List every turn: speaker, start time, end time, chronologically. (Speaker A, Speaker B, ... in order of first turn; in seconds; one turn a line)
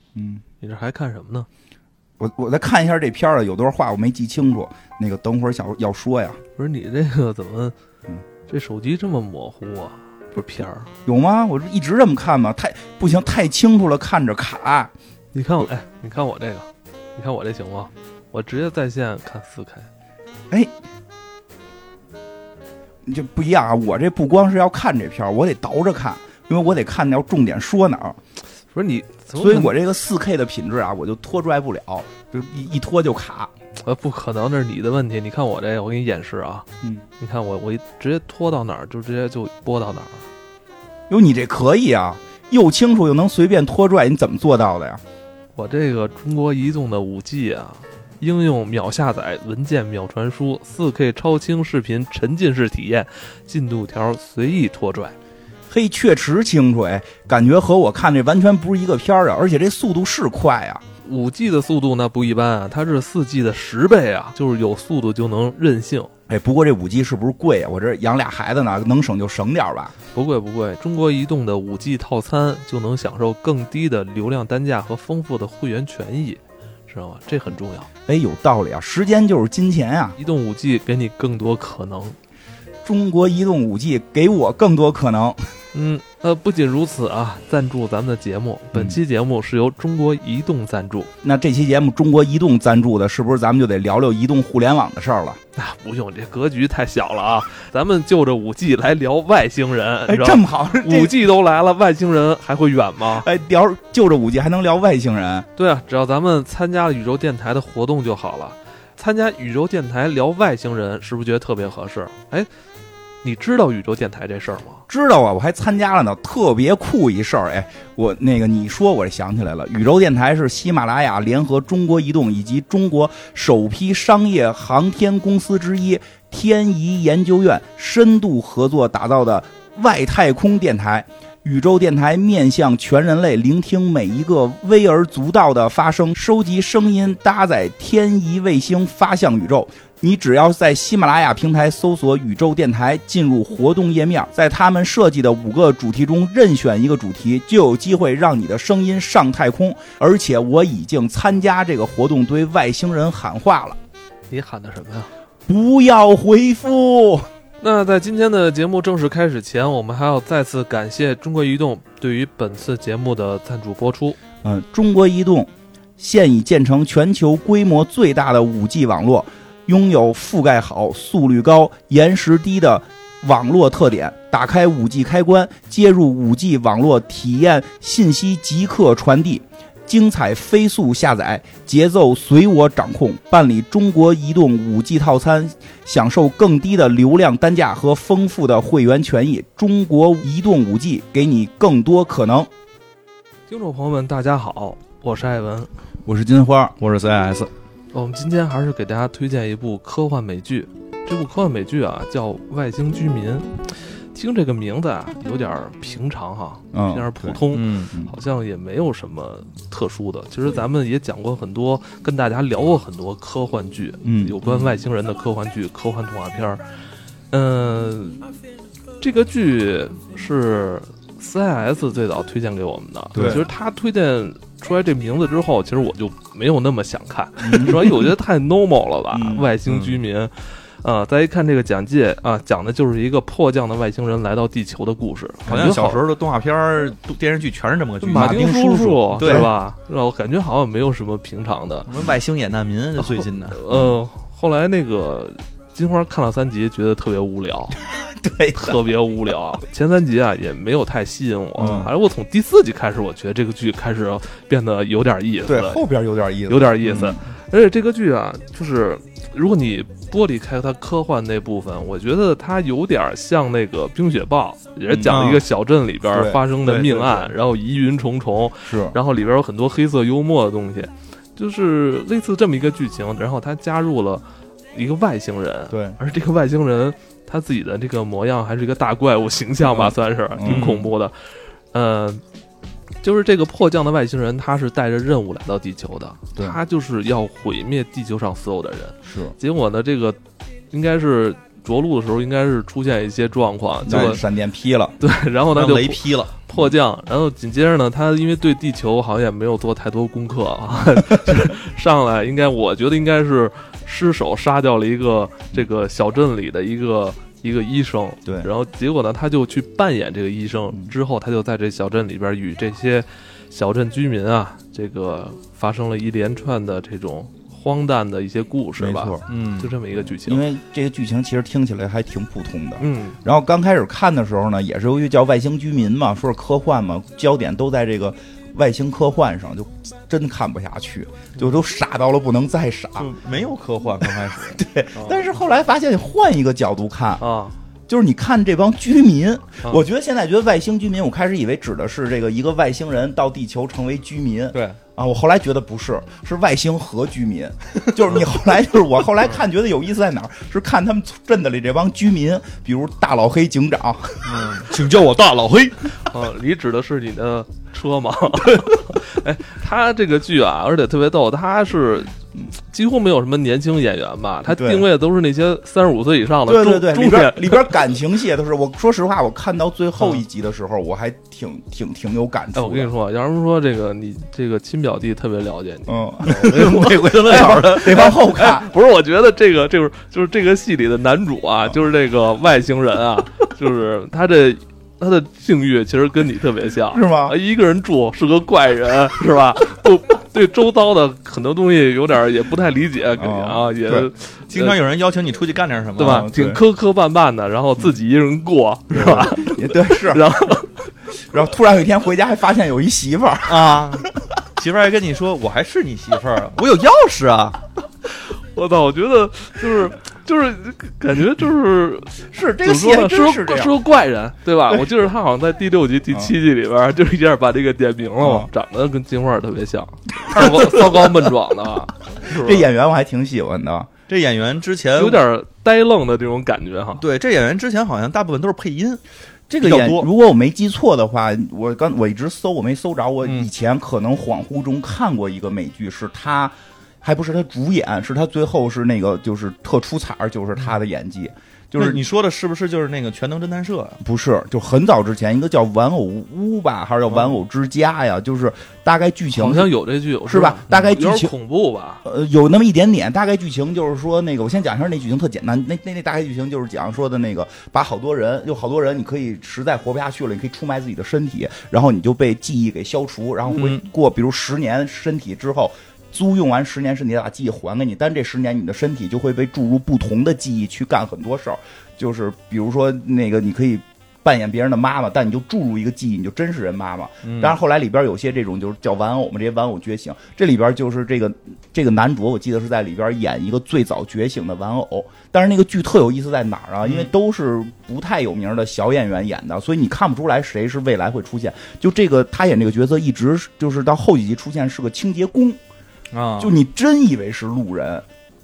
Speaker A: 0.1-0.4
Speaker B: 0.6-1.5
Speaker A: 2.2-6.4
Speaker B: 6.6-7.7
Speaker B: 8.5-10.9
Speaker A: 11.1-14.9
Speaker B: 15.3-19.9
Speaker A: 23.0-28.2
Speaker B: 28.7-29.7
Speaker A: 29.4-33.5
Speaker B: 33.8-36.6
Speaker B: 37.2-40.2
Speaker A: 41.1-45.0
Speaker B: 45.5-55.1
Speaker A: 55.7-60.8
Speaker B: 61.0-66.1
Speaker A: 66.3-69.9
Speaker B: 70.1-77.9
Speaker A: 78.1-80.2
Speaker B: 80.2-82.2
Speaker A: 82.8-85.4
Speaker B: 85.7-91.1
Speaker A: 91.2-95.4
Speaker B: 95.5-103.2
Speaker A: 100.1-101.1
Speaker A: 103.1-105.5
Speaker B: 105.6-112.5
Speaker B: 113.2-114.8
Speaker A: 114.9-153.8
Speaker B: 154.3-155.1
Speaker A: 155.5-157.3
Speaker B: 157.6-164.2
Speaker A: 164.4-192.5
Speaker B: 193.5-195.7
Speaker A: 196.1-196.8
Speaker C: 196.8-197.5
Speaker B: 197.9-216.6
Speaker A: 206.7-208.1
Speaker C: 207.5-207.9
Speaker A: 214.0-214.4
Speaker B: 217.3-218.3
Speaker B: 219.0-236.0
Speaker A: 223.1-223.5
Speaker C: 223.2-223.4
Speaker A: 227.4-228.1
Speaker A: 229.1-229.5
Speaker C: 229.7-230.0
Speaker C: 235.4-238.6
Speaker B: 238.0-241.9
Speaker A: 238.2-239.5
Speaker C: 239.1-239.5
Speaker C: 241.9-243.6
Speaker B: 243.5-247.8
Speaker A: 247.9-248.8
Speaker B: 248.5-255.8
Speaker A: 251.6-251.9
Speaker C: 251.6-251.9
Speaker A: 255.4-257.2
Speaker B: 256.5-281.1
Speaker C: 256.8-257.1
Speaker A: 264.9-265.2
Speaker C: 265.0-265.4
Speaker A: 266.1-266.4
Speaker C: 266.6-267.3
Speaker A: 268.6-269.0
Speaker A: 275.7-276.0
Speaker A: 279.6-280.7
Speaker C: 280.4-280.9
Speaker B: 281.7-282.2
Speaker B: 283.0-290.2
Speaker A: 289.0-289.3
Speaker B: 290.7-294.2
Speaker A: 293.9-294.9
Speaker B: 295.0-320.4
Speaker C: 295.6-296.3
Speaker A: 318.8-319.2
Speaker C: 319.3-319.7
Speaker A: 319.9-333.1
Speaker B: 322.8-323.2
Speaker C: 333.0-334.6
Speaker A: 334.0-337.2
Speaker B: 337.2-337.5
Speaker A: 337.9-354.6
Speaker C: 344.5-344.8
Speaker C: 354.2-355.9
Speaker B: 356.1-367.7
Speaker A: 364.5-364.8
Speaker A: 366.4-372.9
Speaker B: 372.5-394.8
Speaker A: 375.9-378.7
Speaker C: 376.3-378.1
Speaker A: 386.9-387.4
Speaker A: 393.2-394.1
Speaker C: 394.5-396.3
Speaker B: 396.0-400.8
Speaker A: 396.0-396.6
Speaker A: 398.9-400.3
Speaker A: 401.2-404.1
Speaker C: 403.5-404.1
Speaker C: 404.6-407.6
Speaker B: 408.2-422.6
Speaker A: 412.3-413.8
Speaker A: 418.2-418.5
Speaker A: 420.2-420.7
Speaker C: 420.4-421.1
Speaker A: 422.2-423.9
Speaker C: 424.1-425.2
Speaker B: 424.9-427.0
Speaker C: 427.0-429.0
Speaker A: 429.5-442.0
Speaker C: 429.6-430.1
Speaker C: 433.2-433.5
Speaker C: 441.8-444.0
Speaker A: 444.0-449.7
Speaker B: 449.3-452.0
Speaker A: 450.2-451.3
Speaker A: 452.0-495.6
Speaker C: 463.5-463.8
Speaker C: 477.2-477.6
Speaker C: 496.1-496.5
Speaker A: 496.4-498.0